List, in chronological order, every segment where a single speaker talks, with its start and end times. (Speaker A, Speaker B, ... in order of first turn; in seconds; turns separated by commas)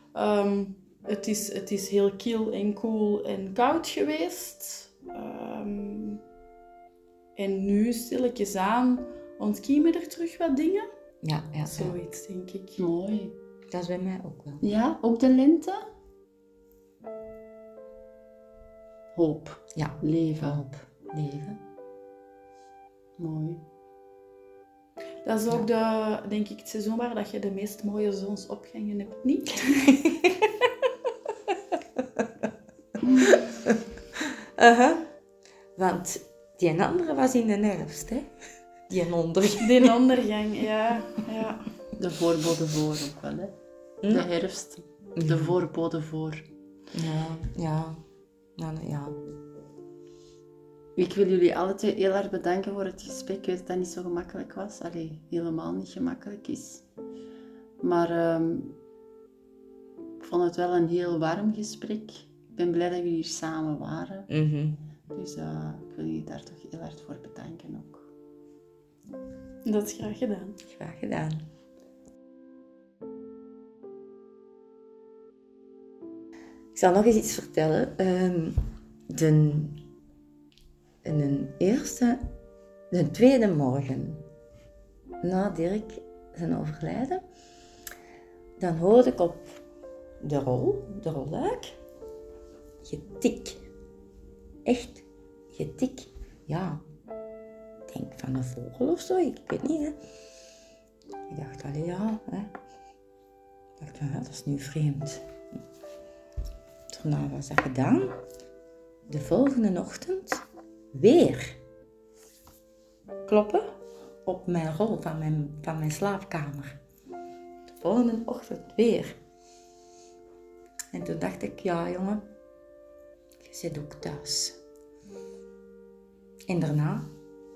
Speaker A: 0.1-6.2, Speaker A: 7.4-10.9, Speaker B: 11.2-12.0, Speaker A: 11.7-12.8, Speaker C: 12.8-13.3, Speaker B: 13.7-14.6, Speaker C: 14.6-15.9, Speaker C: 19.1-20.6, Speaker B: 19.8-21.6, Speaker C: 23.2-23.6, Speaker A: 25.2-30.0, Speaker B: 29.9-30.4, Speaker B: 32.0-32.3, Speaker C: 33.0-33.4, Speaker B: 33.3-35.0, Speaker B: 35.8-38.3, Speaker B: 38.9-40.0, Speaker A: 39.6-41.6, Speaker C: 42.0-43.5, Speaker C: 44.1-46.4, Speaker B: 45.2-45.5, Speaker B: 46.9-48.0, Speaker B: 48.6-49.2, Speaker C: 51.0-56.8, Speaker C: 57.8-58.8, Speaker C: 60.2-64.3, Speaker B: 64.3-64.8, Speaker C: 65.1-68.1, Speaker A: 69.7-70.6, Speaker B: 70.7-71.5, Speaker B: 76.8-79.8, Speaker B: 81.0-82.2, Speaker B: 82.9-84.2, Speaker B: 85.2-87.2, Speaker B: 88.6-89.6, Speaker B: 90.2-91.8, Speaker B: 92.8-93.6, Speaker B: 94.7-96.8, Speaker B: 97.9-100.0, Speaker B: 101.3-102.5, Speaker B: 103.8-105.3, Speaker B: 106.9-108.2, Speaker B: 109.1-111.6, Speaker B: 113.3-113.7, Speaker B: 114.2-116.8, Speaker B: 117.7-119.2, Speaker B: 120.9-122.2, Speaker B: 123.4-124.6, Speaker B: 126.5-127.1